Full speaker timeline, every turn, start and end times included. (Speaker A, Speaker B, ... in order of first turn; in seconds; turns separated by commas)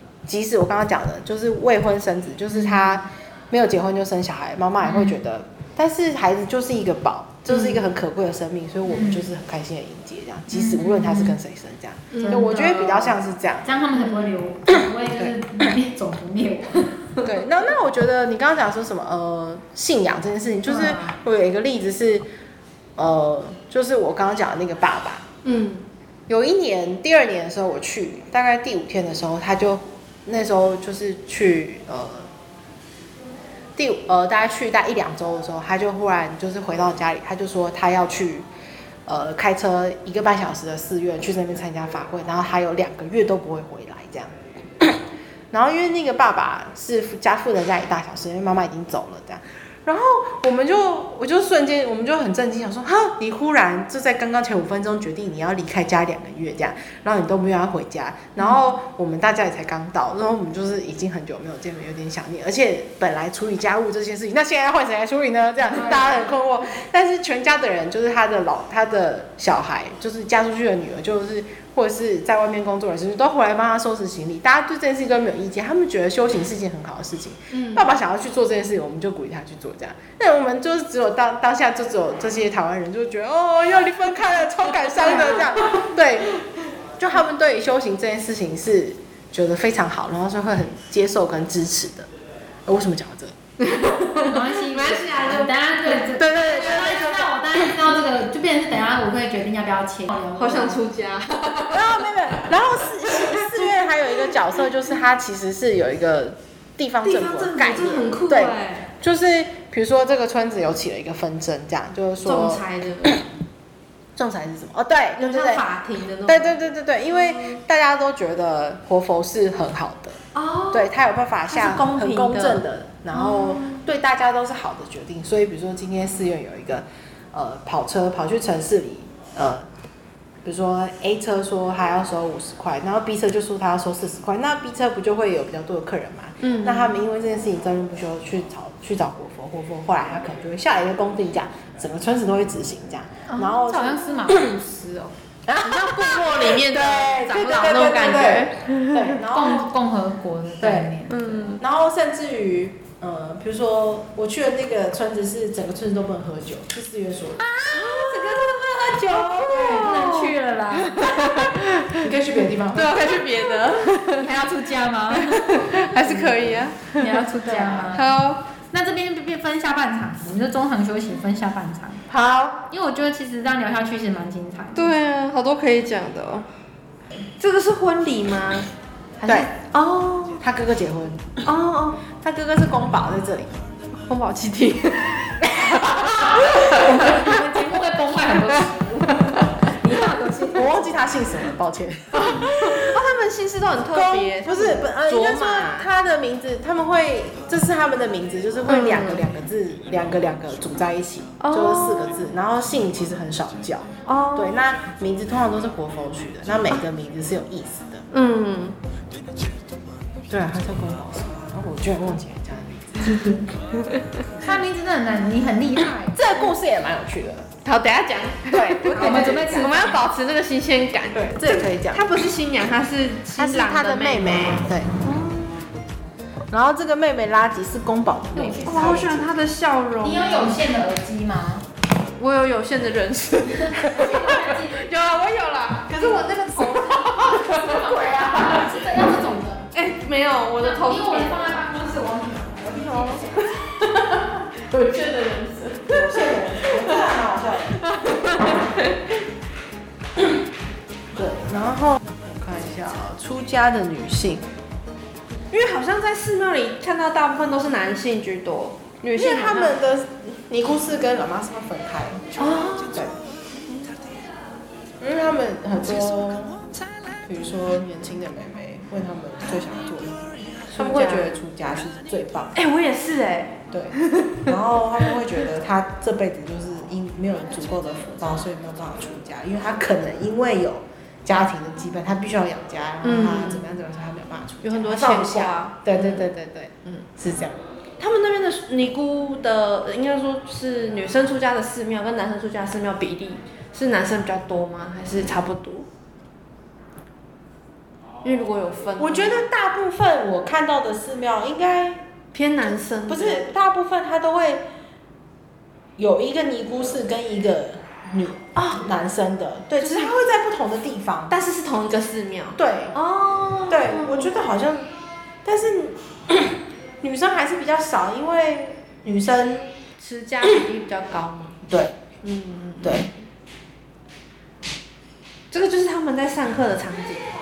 Speaker A: 0.2-13.7, Speaker B: 2.5-3.0, Speaker B: 4.8-5.1, Speaker C: 7.5-7.9, Speaker B: 8.9-9.3, Speaker B: 10.5-11.4, Speaker C: 12.1-12.5, Speaker B: 12.2-17.1, Speaker A: 17.2-22.3, Speaker B: 20.7-21.0, Speaker A: 22.9-25.3, Speaker C: 25.4-25.9, Speaker A: 26.3-32.3, Speaker A: 33.8-38.5, Speaker A: 39.0-86.4, Speaker C: 77.5-77.9, Speaker C: 85.0-85.8, Speaker A: 87.0-92.1, Speaker A: 92.7-93.3, Speaker C: 93.6-96.1, Speaker B: 94.2-100.8, Speaker A: 96.2-97.6, Speaker C: 100.4-102.1, Speaker A: 101.7-113.2, Speaker C: 103.1-103.6, Speaker C: 107.0-108.9, Speaker C: 112.2-113.2, Speaker A: 114.2-115.6, Speaker C: 115.2-116.6, Speaker A: 116.2-120.2, Speaker C: 117.1-117.6, Speaker C: 120.3-120.9, Speaker A: 120.7-129.7, Speaker C: 121.5-123.8, Speaker A: 130.4-144.5, Speaker C: 136.4-137.0, Speaker C: 143.3-143.6, Speaker B: 143.3-145.1, Speaker A: 145.4-149.7, Speaker C: 145.6-149.2, Speaker B: 149.3-151.5, Speaker A: 150.6-150.9, Speaker C: 151.1-151.6, Speaker A: 151.6-157.5, Speaker B: 157.4-161.5, Speaker C: 157.7-162.1, Speaker A: 162.0-163.2, Speaker C: 162.7-164.3, Speaker B: 164.0-166.3, Speaker C: 165.1-167.2, Speaker B: 166.9-168.1, Speaker A: 167.4-167.9, Speaker C: 167.9-168.4, Speaker B: 168.7-172.0, Speaker A: 172.1-172.7, Speaker B: 172.7-174.9, Speaker C: 174.7-176.5, Speaker C: 177.4-178.7, Speaker C: 179.2-180.4, Speaker A: 179.2-179.5, Speaker A: 180.4-181.4, Speaker C: 181.4-182.0, Speaker A: 182.1-183.5, Speaker C: 184.1-187.4, Speaker A: 185.4-186.5, Speaker B: 186.1-190.8, Speaker C: 189.2-189.4, Speaker A: 190.5-193.0, Speaker C: 192.1-195.9, Speaker A: 193.9-208.1, Speaker C: 198.7-199.2, Speaker C: 201.4-202.2, Speaker C: 204.1-204.6, Speaker C: 208.1-208.8, Speaker A: 210.3-213.4, Speaker C: 213.2-214.0, Speaker B: 214.4-216.2, Speaker A: 216.1-217.6, Speaker C: 217.6-225.7, Speaker A: 218.5-219.9, Speaker B: 218.9-220.0, Speaker A: 221.1-222.1, Speaker A: 223.3-225.0, Speaker A: 226.5-229.3, Speaker B: 228.3-229.1, Speaker C: 228.6-230.6, Speaker B: 230.0-231.6, Speaker C: 232.2-238.8, Speaker B: 233.5-234.9, Speaker B: 235.9-239.7, Speaker C: 239.7-241.7, Speaker B: 240.6-243.5, Speaker C: 243.0-247.2, Speaker A: 245.9-247.8, Speaker C: 247.7-249.2, Speaker A: 251.1-254.4, Speaker C: 255.5-259.8, Speaker A: 259.1-263.2, Speaker C: 262.4-263.0, Speaker A: 265.0-266.6, Speaker A: 267.2-272.6, Speaker C: 270.7-271.3, Speaker C: 272.5-275.2, Speaker A: 273.7-287.6, Speaker C: 283.0-283.8, Speaker C: 284.6-286.3, Speaker C: 288.0-295.9, Speaker C: 298.2-299.4, Speaker A: 299.0-302.0, Speaker C: 302.3-303.5, Speaker A: 303.1-304.7, Speaker A: 306.0-311.3, Speaker C: 308.6-308.8, Speaker C: 309.8-310.1, Speaker C: 311.3-314.3, Speaker A: 312.6-312.9, Speaker A: 313.7-314.9, Speaker A: 315.4-319.7, Speaker C: 320.0-321.6, Speaker A: 321.7-321.9, Speaker C: 322.2-323.2, Speaker A: 322.8-323.1, Speaker C: 325.5-327.3